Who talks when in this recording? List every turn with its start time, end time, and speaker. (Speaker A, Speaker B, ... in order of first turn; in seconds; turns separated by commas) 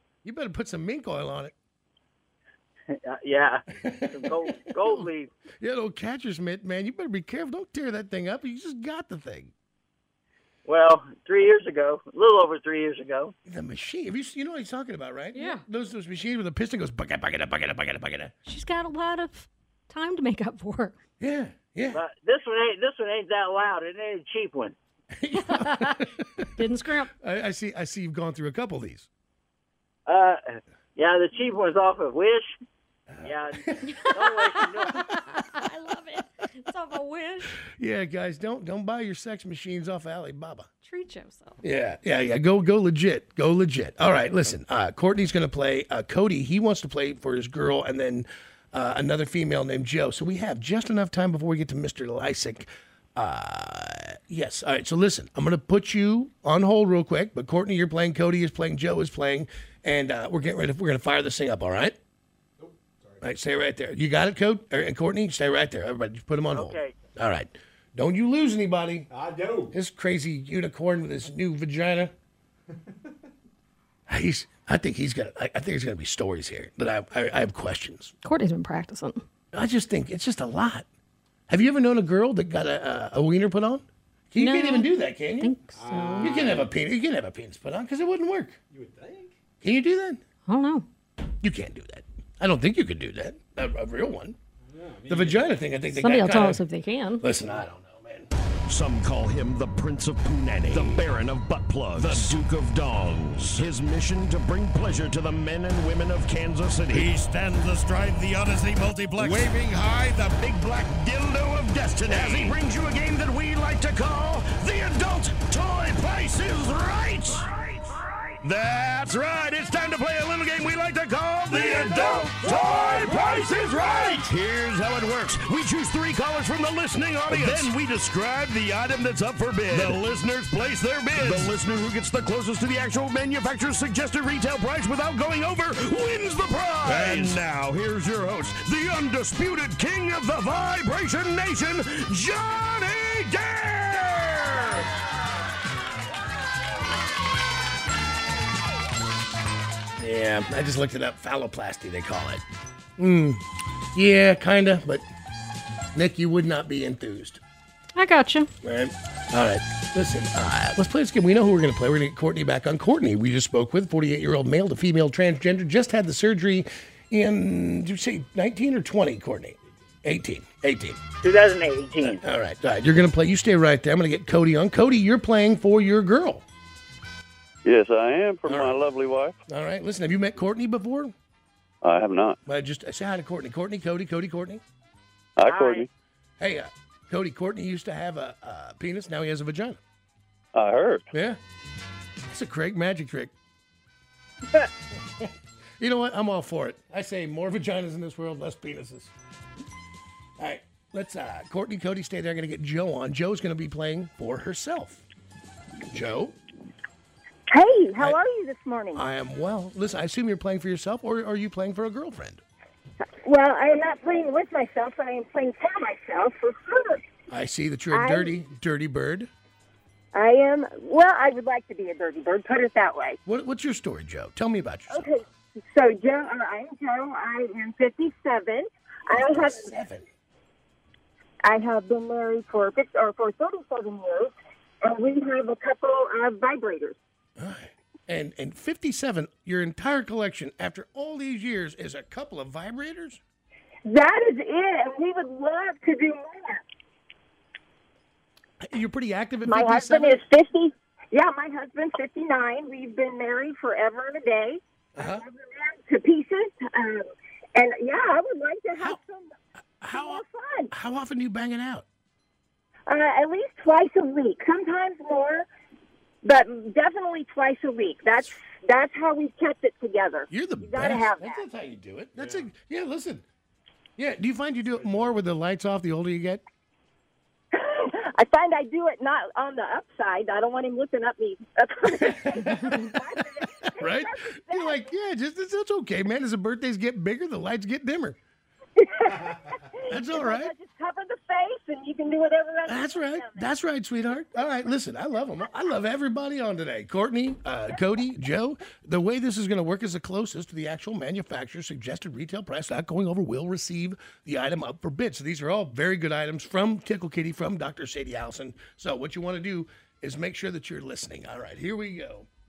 Speaker A: 0.2-1.5, Speaker B: 2.9-5.3, Speaker A: 3.8-9.5, Speaker B: 10.7-13.3, Speaker A: 13.5-18.3, Speaker C: 15.3-15.7, Speaker C: 18.4-21.0, Speaker A: 21.2-22.0, Speaker B: 21.9-24.8, Speaker A: 25.1-26.6, Speaker C: 25.3-27.1, Speaker A: 27.2-29.1, Speaker B: 30.1-32.5, Speaker A: 33.1-34.1, Speaker B: 33.2-35.0, Speaker C: 33.9-37.6, Speaker A: 34.9-35.6, Speaker A: 37.6-40.7, Speaker C: 40.8-41.6, Speaker A: 41.6-62.0, Speaker D: 62.6-63.3, Speaker A: 63.2-69.1, Speaker B: 66.5-67.0, Speaker D: 69.1-69.8, Speaker A: 69.7-72.1, Speaker D: 72.9-73.1, Speaker A: 74.1-78.1, Speaker C: 78.2-79.2, Speaker A: 79.5-80.9, Speaker A: 81.5-85.6, Speaker C: 84.4-86.5, Speaker D: 85.7-86.7, Speaker A: 86.2-88.6, Speaker D: 88.7-89.4, Speaker A: 89.6-90.2, Speaker C: 90.5-90.9, Speaker A: 91.4-94.4, Speaker D: 94.7-95.6, Speaker A: 95.1-96.6, Speaker C: 95.9-97.3, Speaker A: 97.2-98.3, Speaker E: 98.7-117.8, Speaker E: 118.4-144.9, Speaker A: 150.0-152.4, Speaker A: 153.0-153.4, Speaker A: 153.9-155.1, Speaker A: 155.9-157.4, Speaker C: 158.0-158.5, Speaker A: 158.6-171.0, Speaker B: 171.2-172.2, Speaker A: 172.0-176.4, Speaker F: 177.7-179.4, Speaker A: 178.5-178.8, Speaker A: 179.5-181.1, Speaker F: 181.8-182.4, Speaker A: 182.5-184.6, Speaker F: 185.4-185.9, Speaker B: 185.4-185.9, Speaker A: 186.4-189.8, Speaker F: 190.6-191.1, Speaker A: 191.1-191.4, Speaker A: 192.3-193.3, Speaker A: 195.2-199.1, Speaker A: 200.4-205.0, Speaker A: 205.9-206.4, Speaker G: 207.5-209.0, Speaker A: 208.9-212.4, Speaker G: 213.0-217.0, Speaker A: 217.3-219.3, Speaker G: 217.9-218.3, Speaker G: 220.1-223.2, Speaker A: 223.3-225.1, Speaker G: 224.9-229.7, Speaker A: 229.1-230.1, Speaker G: 231.4-237.0, Speaker A: 237.4-243.2, Speaker G: 243.9-246.6, Speaker A: 248.6-250.2, Speaker G: 249.5-259.3, Speaker A: 255.0-255.2, Speaker A: 259.8-261.9, Speaker G: 259.9-260.7, Speaker G: 262.9-265.5, Speaker G: 266.2-271.4, Speaker A: 270.3-273.2, Speaker D: 272.2-272.5, Speaker A: 274.0-276.4, Speaker D: 274.7-275.2, Speaker G: 277.5-284.9, Speaker A: 281.9-283.0, Speaker A: 283.8-288.2, Speaker G: 288.8-293.5, Speaker A: 289.9-290.5, Speaker A: 292.7-312.3